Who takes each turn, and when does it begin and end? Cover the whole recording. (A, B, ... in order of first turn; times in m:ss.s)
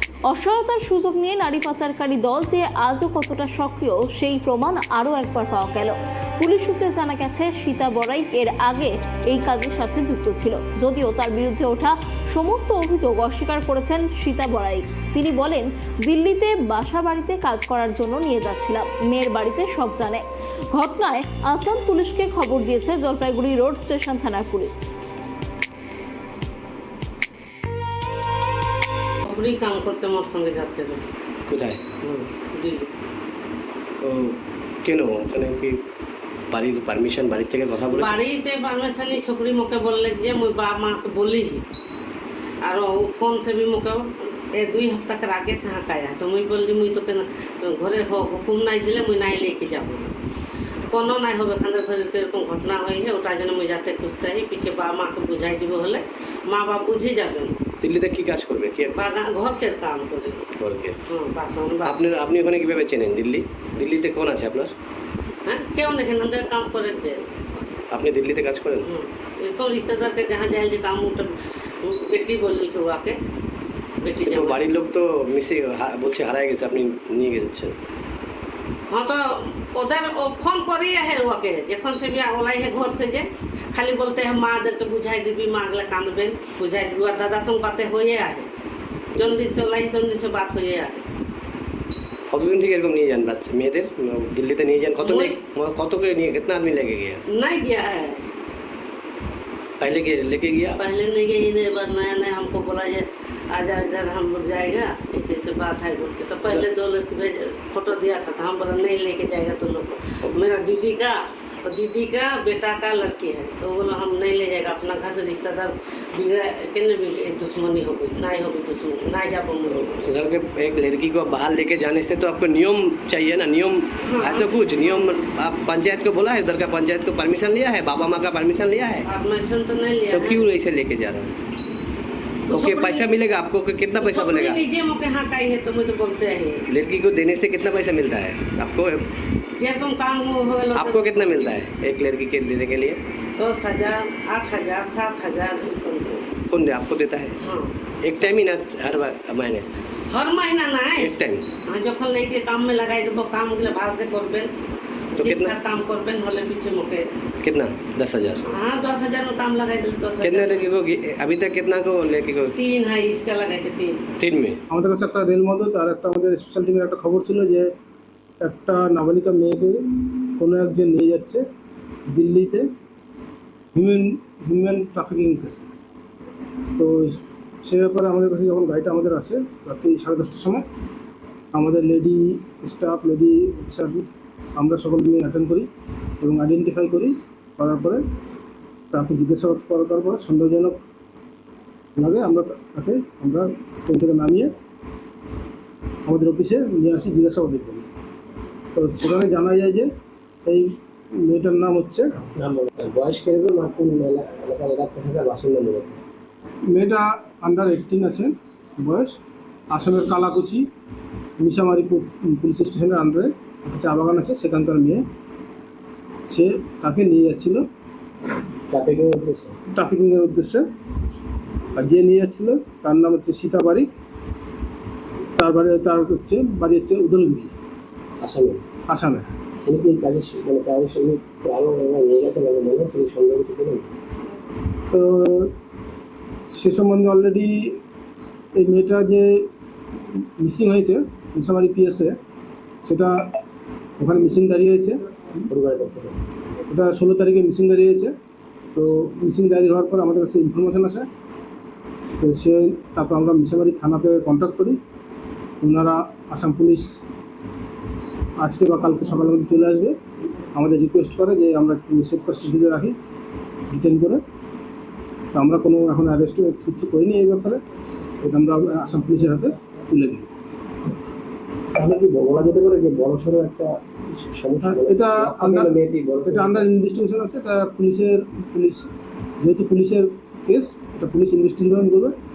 0:00.3-0:24.9 A
0:29.2-0:31.0 B
0:32.0-0:32.9 B
0:34.0-0:35.7 C
0:36.5-0:37.8 C
0:37.8-0:41.6 B
0:42.6-0:50.1 B
0:50.9-0:57.6 B
0:57.9-0:58.8 C
0:58.9-1:00.5 B
1:01.1-1:02.4 B
1:02.5-1:04.7 C
1:05.5-1:07.3 B
1:08.0-1:08.6 C
1:08.8-1:13.2 B
1:14.0-1:14.7 B
1:14.6-1:17.7 C
1:18.9-1:28.5 B
1:29.2-1:31.0 B
1:32.5-1:34.9 C
1:35.0-1:35.4 B
1:35.4-1:37.1 C
1:37.3-1:38.3 B
1:40.0-1:40.6 C
1:40.8-2:00.2 B
2:00.3-2:03.8 C
2:04.0-2:05.2 B
2:04.4-2:09.0 C
2:09.0-2:10.5 B
2:10.2-2:11.3 C
2:12.5-2:13.2 B
2:12.5-2:14.0 C
2:13.9-2:16.7 B
2:16.9-2:19.0 C
2:19.6-2:21.6 B
2:21.7-2:23.0 C
2:23.4-2:26.3 B
2:26.6-2:27.3 C
2:27.4-2:27.7 B
2:28.1-2:29.6 C
2:30.1-2:34.5 B
2:35.2-2:37.1 B
2:37.5-2:38.2 C
2:38.4-2:40.8 B
2:40.9-2:42.5 C
2:42.6-2:44.0 B
2:44.2-2:44.5 C
2:44.7-2:47.7 D
2:48.4-2:49.9 D
2:50.4-2:51.4 D
2:52.1-2:52.7 D
2:53.7-2:55.7 D
2:56.8-3:00.6 D
3:01.5-3:05.7 D
3:06.2-3:08.0 D
3:08.9-3:10.8 D
3:12.0-3:14.5 D
3:16.1-3:17.9 D
3:18.8-3:19.9 D
3:20.5-3:22.1 D
3:22.4-3:26.0 E
3:26.7-3:29.2 D
3:29.7-3:30.7 D
3:31.4-3:35.0 D
3:36.3-3:37.6 D
3:38.7-3:39.6 E
3:39.7-3:40.6 D
3:41.8-3:43.9 D
3:45.4-3:47.5 D
3:48.2-3:48.6 E
3:48.9-3:49.3 D
3:49.6-3:53.9 E
3:54.9-3:55.5 D
3:56.5-3:57.8 D
3:58.6-3:59.5 D
4:00.1-4:02.2 D
4:02.8-4:03.2 D
4:04.0-4:05.0 D
4:05.5-4:06.2 E
4:06.7-4:08.2 D
4:08.7-4:11.1 D
4:12.2-4:14.8 D
4:15.6-4:17.0 D
4:18.4-4:20.0 D
4:20.6-4:23.0 D
4:23.7-4:24.2 D
4:25.3-4:27.6 D
4:28.2-4:30.3 D
4:31.7-4:36.7 E
4:34.6-4:38.9 D
4:39.4-4:42.2 D